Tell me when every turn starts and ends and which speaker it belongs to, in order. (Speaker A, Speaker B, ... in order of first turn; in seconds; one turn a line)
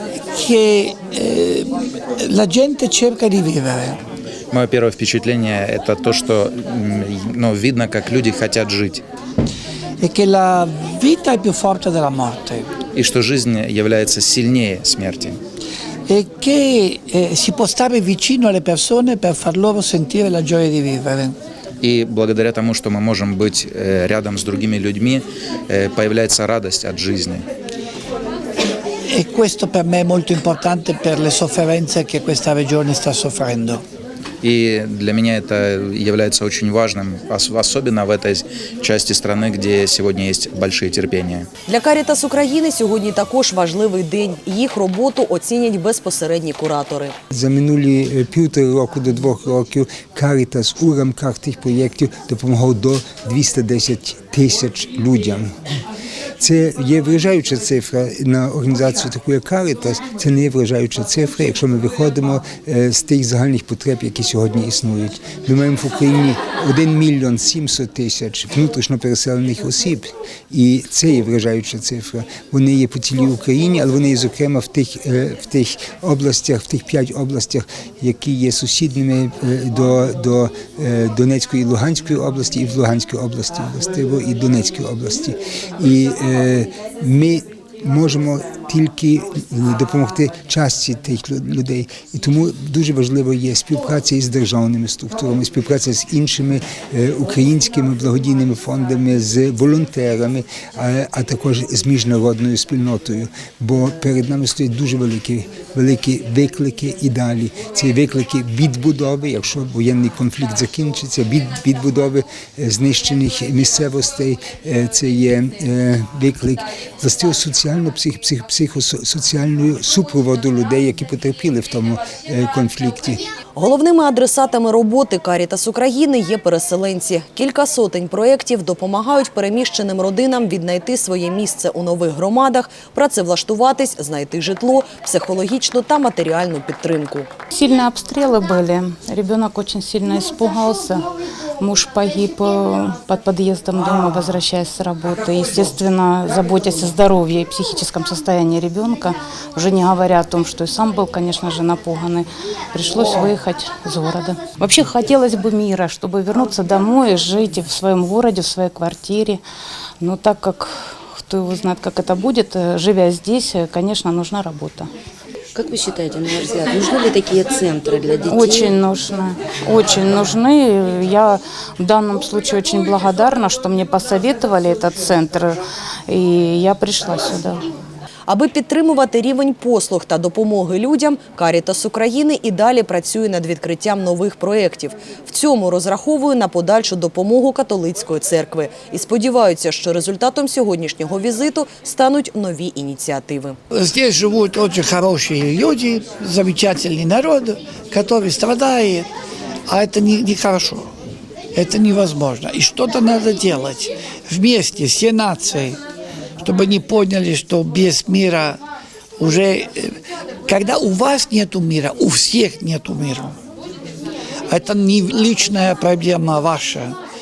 Speaker A: 0.3-4.0
Speaker B: 4.5-9.0
Speaker A: 10.0-12.7
Speaker B: 13.0-15.4
Speaker A: 16.1-21.4
Speaker B: 21.8-27.4
Speaker A: 29.1-33.8
Speaker B: 34.4-41.5
Speaker C: 41.7-47.1
Speaker D: 47.3-55.5
Speaker D: 56.4-123.2
Speaker C: 123.5-137.3
Speaker E: 137.5-141.0
Speaker E: 141.6-159.4
Speaker E: 160.0-164.9
Speaker F: 165.6-168.7
Speaker E: 168.3-177.6
Speaker C: 178.3-193.6
Speaker A: 193.7-199.1
Speaker A: 199.7-200.9
Speaker A: 201.5-205.8
Speaker A: 206.4-208.6
Speaker A: 209.2-213.4
Speaker A: 214.5-217.0